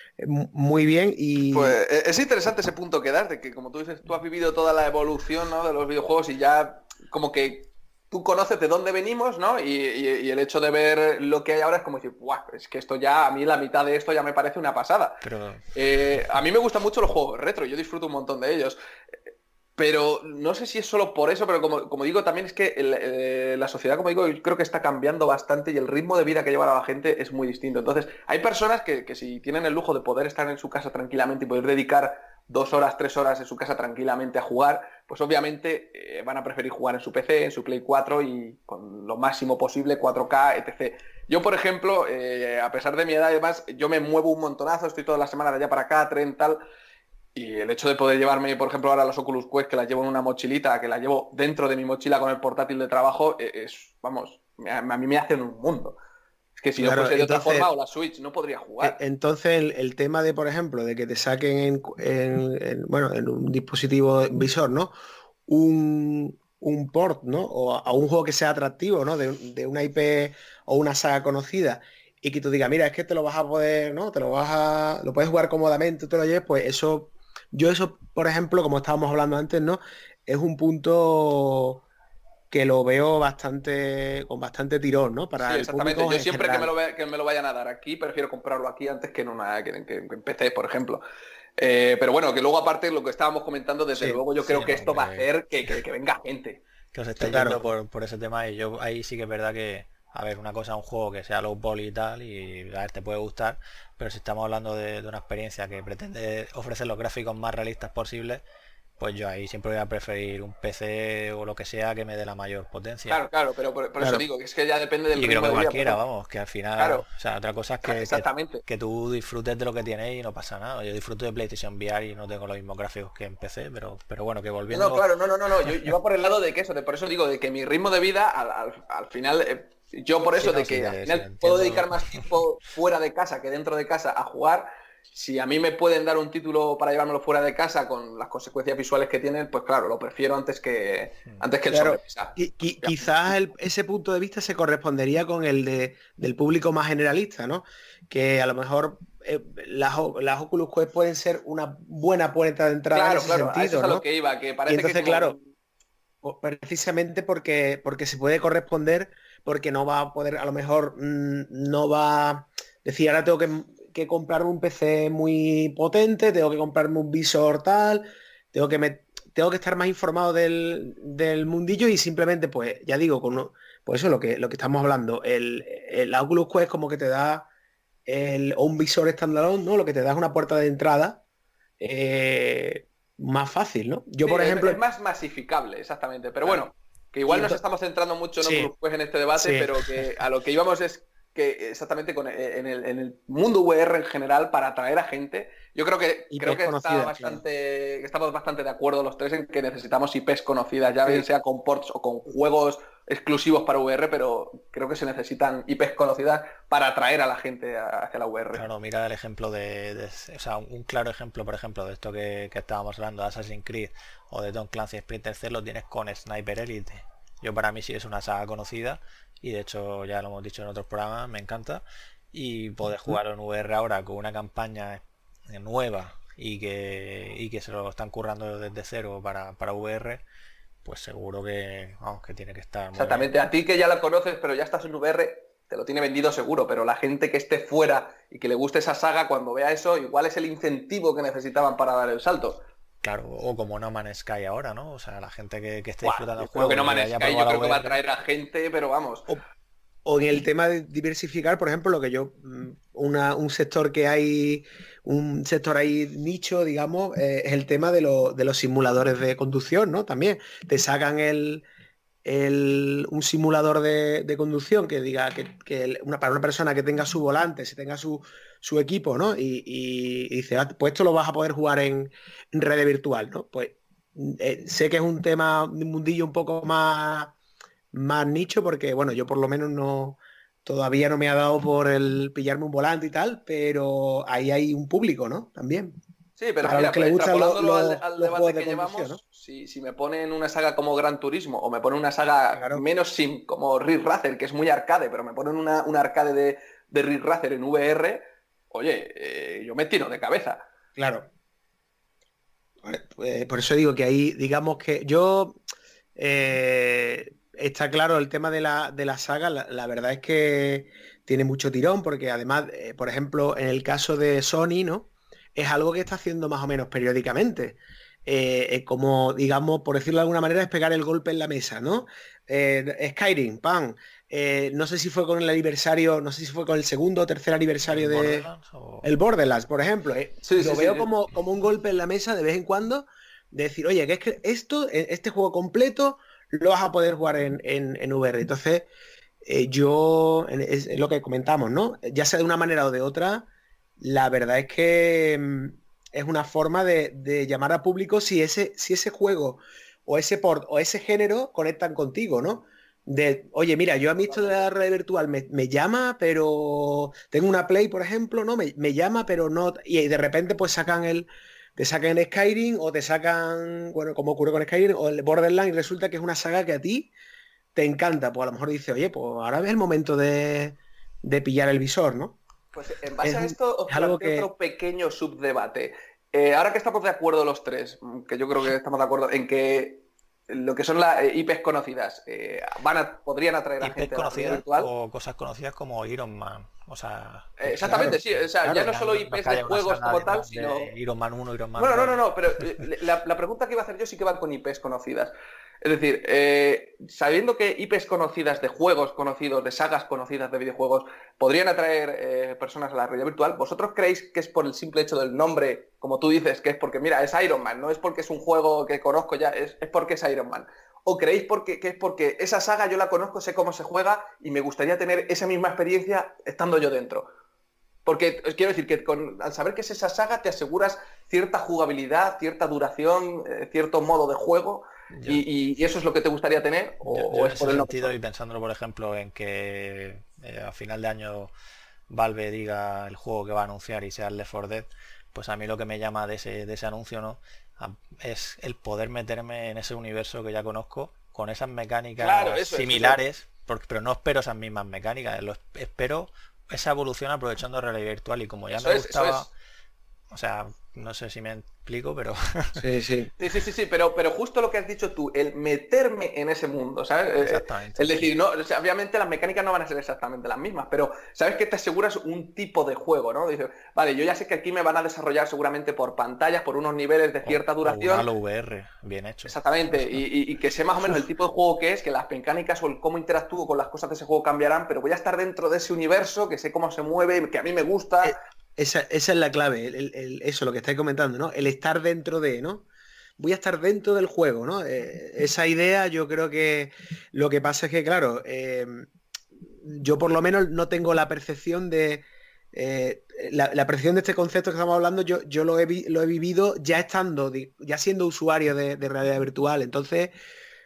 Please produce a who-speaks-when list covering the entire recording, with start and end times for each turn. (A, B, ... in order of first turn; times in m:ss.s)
0:00.2-0:01.8 A
0:01.5-0:15.2 B
0:15.2-0:16.3 C
0:15.8-0:18.8 B
0:19.8-0:46.6 B
0:47.4-0:56.0 B
0:56.6-0:59.0 B
0:56.8-0:57.7 A
0:58.8-1:04.9 A
1:05.5-1:21.8 A
1:22.5-1:26.7 A
1:25.4-1:31.0 B
1:31.6-1:36.6 B
1:34.4-1:35.3 C
1:36.9-1:48.4 C
1:37.2-1:37.7 A
1:49.0-1:53.2 C
1:53.1-1:56.0 B
1:54.0-1:54.2 A
1:55.2-2:05.1 C
1:56.8-1:57.0 B
1:57.8-1:58.6 B
2:04.7-2:23.1 B
2:05.6-2:05.9 C
2:10.4-2:12.3 C
2:21.7-2:34.0 A
2:32.9-2:35.5 B
2:34.7-2:35.4 A
2:36.2-2:57.5 A
2:58.1-3:01.2 A
3:01.8-3:04.8 A
3:04.2-3:28.6 B
3:07.3-3:07.6 A
3:08.4-3:08.7 A
3:09.4-3:09.7 A
3:16.3-3:17.4 A
3:28.6-3:50.2 C
3:50.8-3:53.3 C
3:53.0-4:02.6 B
4:03.0-4:08.0 C
4:06.0-4:09.3 B
4:10.0-4:21.6 A
4:22.2-4:37.4 A
4:37.9-4:46.0 A
4:46.4-5:00.7 B
4:46.6-4:49.2 A
4:52.5-4:52.8 A
5:01.0-5:01.3 A
5:02.8-5:05.6 A
5:06.2-5:28.5 A
5:27.9-5:29.1 C
5:29.0-5:38.9 A
5:30.4-5:31.1 B
5:39.4-5:43.5 A
5:44.0-6:07.1 A
5:54.2-5:54.7 B
6:07.8-6:12.4 A
6:12.8-6:24.9 B
6:13.2-6:14.5 A
6:23.8-6:32.2 C
6:27.6-6:30.9 B
6:31.8-6:57.3 B
6:58.0-7:08.2 B
7:05.1-7:05.4 C
7:07.1-7:11.5 C
7:12.1-7:29.5 C
7:22.2-7:23.2 B
7:28.7-7:29.5 B
7:30.3-7:32.8 C
7:32.8-7:33.3 A
7:33.4-7:48.3 B
7:37.4-7:38.3 C
7:47.4-7:50.2 C
7:49.4-7:58.4 B
7:58.2-8:02.8 A
8:03.4-8:09.1 A
8:09.8-8:20.3 A